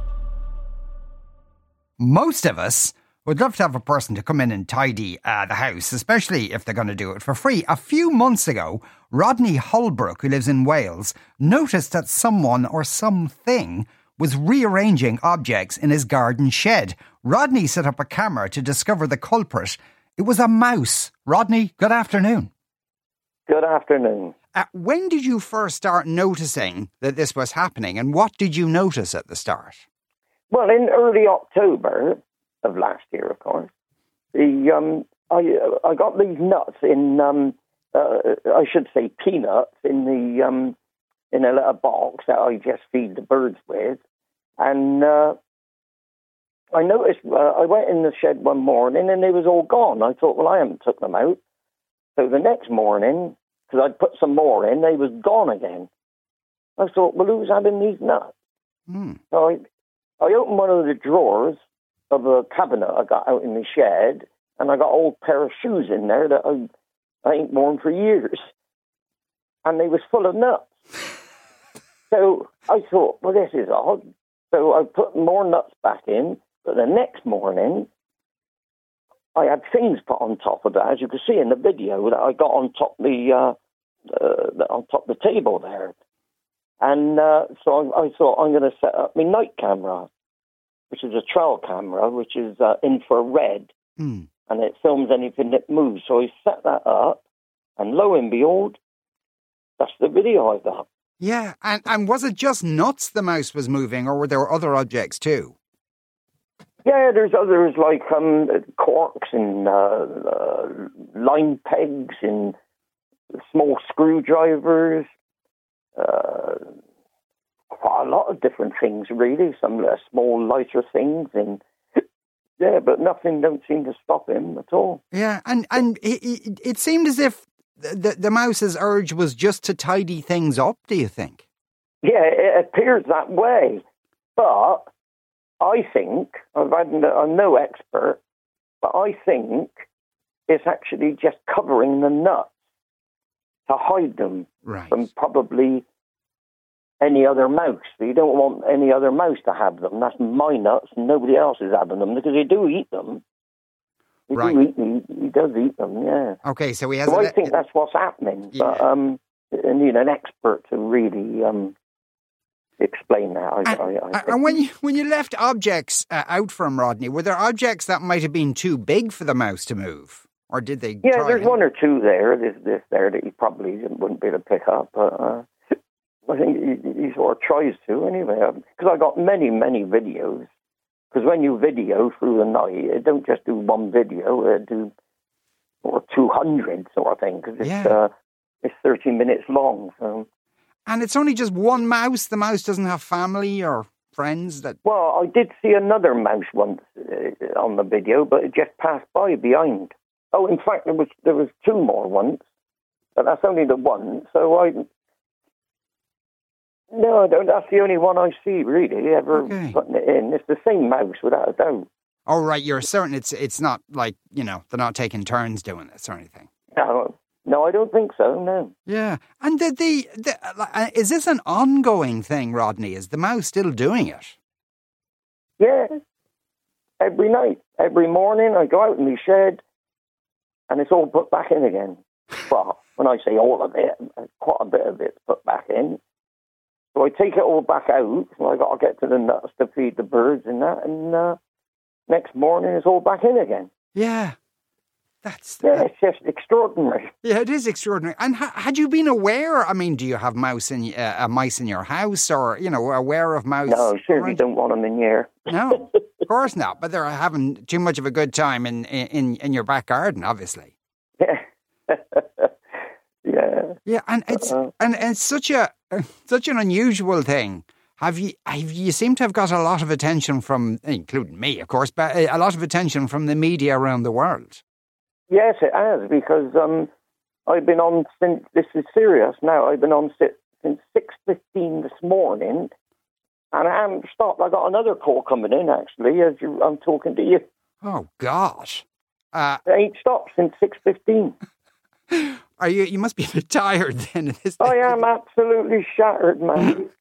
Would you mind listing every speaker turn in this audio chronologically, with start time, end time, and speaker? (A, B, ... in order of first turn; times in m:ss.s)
0:02.0-0:22.5 A
0:23.5-0:24.3 B
0:24.6-0:29.8 A
0:30.5-0:33.7 B
0:34.3-0:40.8 B
0:41.3-0:44.0 B
0:44.6-0:45.4 B
0:46.7-0:51.4 B
0:52.2-0:55.9 B
0:56.8-0:58.3 B
0:58.9-0:59.2 A
0:59.3-0:59.6 B
1:00.2-1:06.7 B
1:07.2-1:08.4 B
1:09.6-1:10.7 B
1:12.1-1:17.9 B
1:19.3-1:23.6 B
1:24.1-1:25.9 B
1:26.8-1:30.1 B
1:30.9-1:33.7 B
1:34.0-1:34.3 A
1:34.5-1:37.2 B
1:37.8-1:38.8 B
1:39.8-1:40.9 B
1:41.2-1:45.6 A
1:46.8-1:52.6 B
1:53.5-1:55.1 B
1:56.0-1:56.7 B
1:57.7-2:02.0 B
2:02.6-2:05.0 B
2:05.1-2:11.4 A
2:12.0-2:13.8 B
2:14.4-2:14.9 B
2:15.6-2:18.2 B
2:18.8-2:19.8 B
2:20.5-2:22.5 B
2:23.7-2:25.8 B
2:24.7-2:25.0 A
2:27.0-2:33.2 B
2:34.3-2:36.4 B
2:34.3-2:34.6 A
2:36.4-2:37.6 A
2:37.1-2:41.8 B
2:38.5-2:38.8 A
2:42.8-2:44.6 B
2:43.7-2:51.6 A
2:51.0-2:55.5 B
2:56.3-3:00.5 B
3:01.1-3:04.9 B
3:05.8-3:08.1 B
3:07.6-3:08.0 A
3:08.6-3:10.3 B
3:10.9-3:14.8 A
3:14.8-3:22.4 B
3:23.2-3:24.9 B
3:26.9-3:31.9 B
3:29.4-3:29.8 A
3:32.3-3:36.5 A
3:36.8-3:38.7 B
3:38.9-3:44.4 A
3:45.6-3:46.0 B
3:47.0-3:49.6 B
3:50.7-3:56.0 B
3:56.9-4:01.4 B
4:02.1-4:03.7 B
4:04.0-4:04.4 A
4:05.2-4:05.9 A
4:05.6-4:07.1 B
4:07.2-4:14.4 A
4:13.7-4:15.4 B
4:15.5-4:20.7 A
4:21.2-4:22.5 B
4:23.2-4:23.8 B
4:23.9-4:34.6 A
4:24.3-4:24.7 B
4:35.3-4:36.9 B
4:37.5-4:42.7 B
4:43.5-4:47.4 B
4:47.8-4:49.6 A
4:49.7-4:51.4 B
4:52.1-4:55.0 A
4:54.6-4:56.9 B